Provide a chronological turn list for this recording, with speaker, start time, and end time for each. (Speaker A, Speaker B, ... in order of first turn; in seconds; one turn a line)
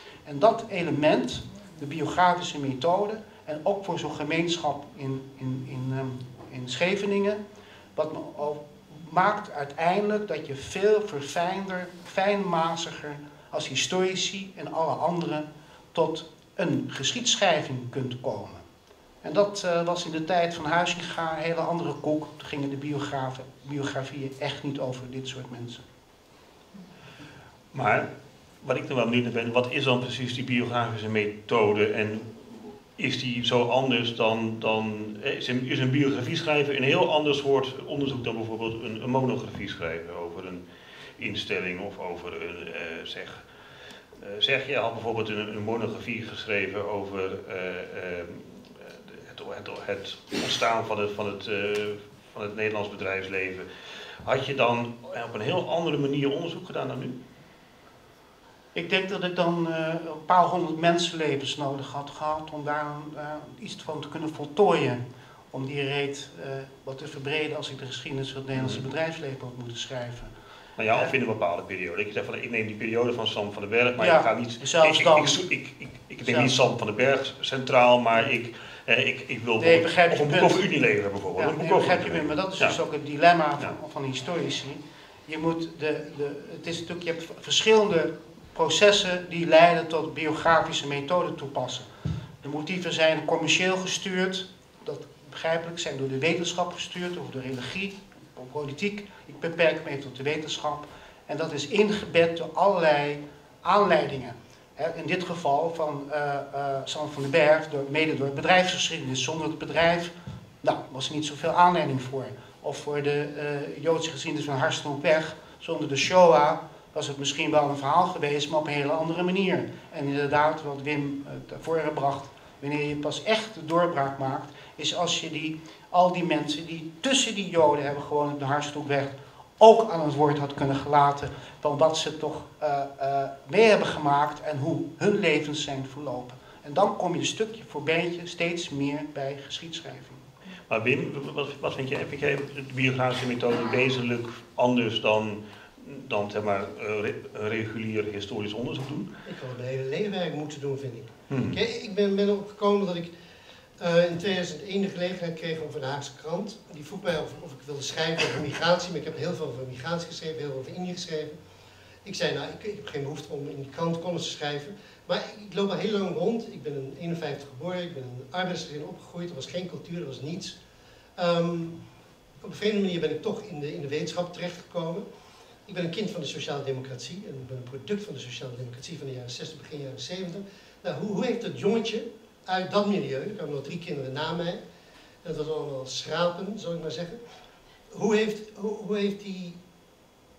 Speaker A: 0.2-7.4
Speaker A: 8.0-18.6
Speaker A: 19.2-25.8
Speaker B: 27.7-28.1
Speaker B: 28.6-40.6
Speaker B: 41.2-43.4
Speaker B: 44.2-53.6
Speaker B: 54.2-57.2
Speaker A: 58.7-65.0
Speaker A: 65.5-70.3
Speaker B: 68.5-68.8
Speaker B: 70.8-82.8
Speaker A: 74.0-75.5
Speaker A: 76.2-76.7
Speaker A: 79.6-80.6
Speaker A: 81.3-91.9
Speaker A: 92.4-140.2
Speaker B: 140.7-149.1
Speaker C: 149.2-153.1
Speaker B: 151.3-151.6
Speaker C: 153.8-161.4
Speaker C: 162.0-170.6
Speaker C: 171.2-171.8
Speaker C: 172.4-175.0
Speaker C: 175.7-184.6
Speaker C: 185.2-187.2
Speaker C: 187.9-189.6